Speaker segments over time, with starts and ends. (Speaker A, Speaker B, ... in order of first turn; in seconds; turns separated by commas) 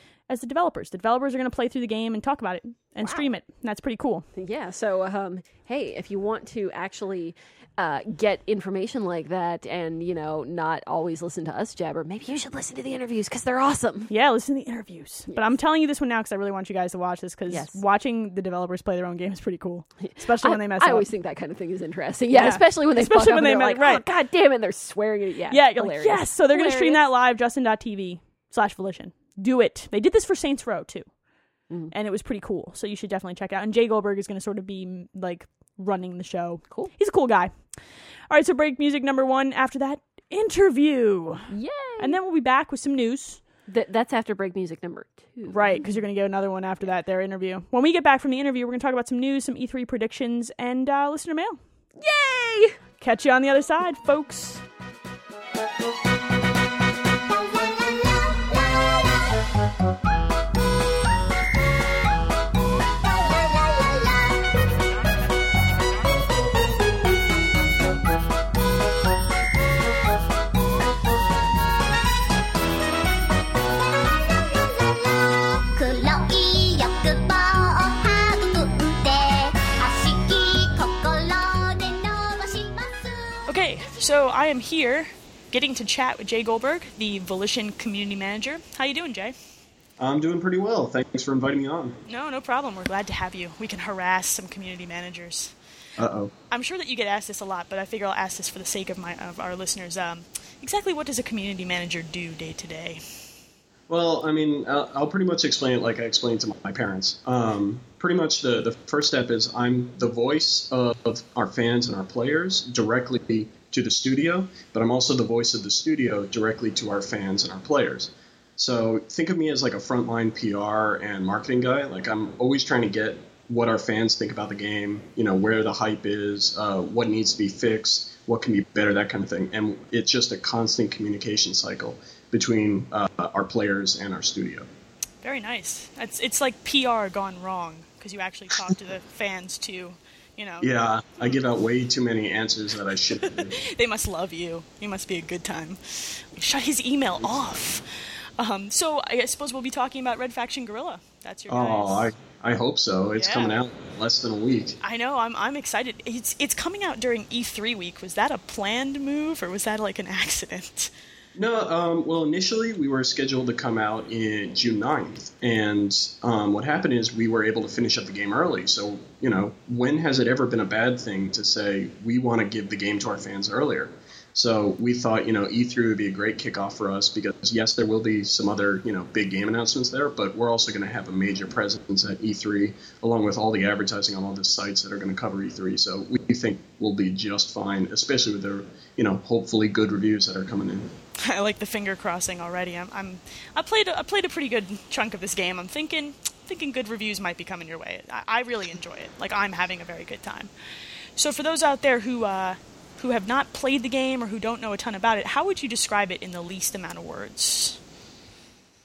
Speaker A: 0.3-4.2, Speaker B: 3.0-3.3, Speaker B: 4.3-14.1, Speaker A: 14.1-21.1, Speaker B: 17.5-17.8, Speaker B: 20.0-27.0, Speaker A: 22.3-24.0, Speaker A: 25.5-31.1, Speaker A: 31.9-37.5, Speaker A: 38.3-43.4, Speaker B: 41.5-42.1, Speaker B: 43.7-45.9, Speaker A: 45.5-51.6, Speaker B: 52.0-52.8, Speaker A: 53.0-54.6, Speaker C: 57.5-59.3, Speaker C: 63.0-64.6, Speaker C: 73.8-83.5, Speaker A: 83.5-89.3, Speaker D: 90.0-92.0, Speaker A: 92.0-95.5, Speaker D: 96.0-96.3, Speaker A: 96.5-103.0, Speaker D: 103.9-134.7, Speaker A: 135.2-140.7, Speaker D: 140.6-143.6, Speaker A: 143.2-147.8, Speaker A: 148.4-152.1, Speaker D: 151.5-154.8, Speaker A: 153.2-153.6, Speaker A: 154.8-160.9, Speaker D: 161.3-190.9, Speaker A: 191.2-200.5, Speaker A: 201.2-207.8